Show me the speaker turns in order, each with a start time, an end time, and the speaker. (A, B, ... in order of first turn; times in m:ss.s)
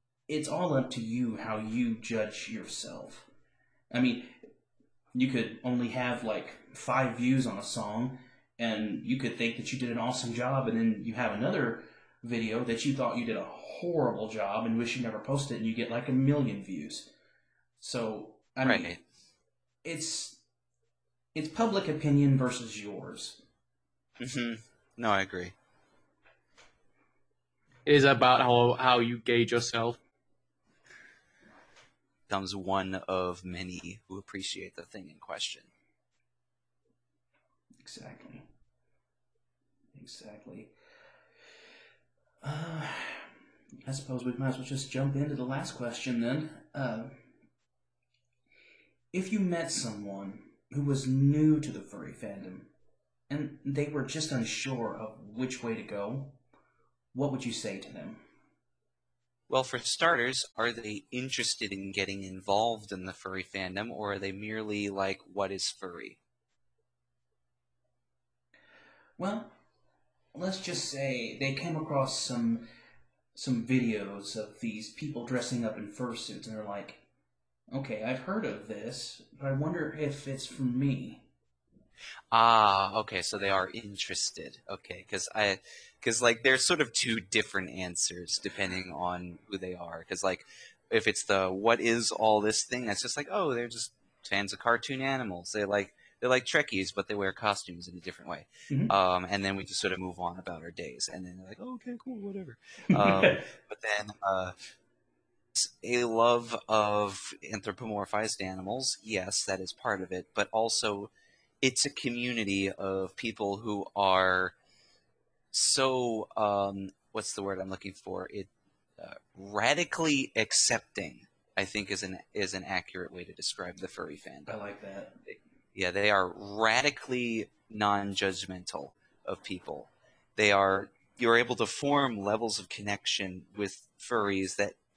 0:00.3-0:03.3 A
0:03.9-0:04.4 A
0:05.1-0:17.1 A
0:17.8-0:18.9 A
0:18.6-0:19.0 B
0:19.8-0:20.4 A
0:21.3-0:23.4 A
0:24.2-0:25.5 B
0:27.8-0:30.0 C
0:32.3-0:35.7 B
0:37.8-0:38.5 A
0:39.9-0:40.7 A
0:42.4-0:43.3 A
0:43.8-0:47.2 A
0:49.1-0:52.7 A
0:53.3-0:56.4 A
0:57.1-0:58.2 A
0:59.5-1:06.2 B
1:09.2-1:09.6 A
1:10.3-1:12.6 A
1:13.3-1:17.0 A
1:17.7-1:21.3 A
1:22.3-1:44.5 B
1:42.9-1:43.4 A
1:45.5-1:51.1 B
1:51.6-1:54.5 B
1:55.5-2:04.5 B
2:04.5-2:05.2 A
2:05.7-2:14.8 B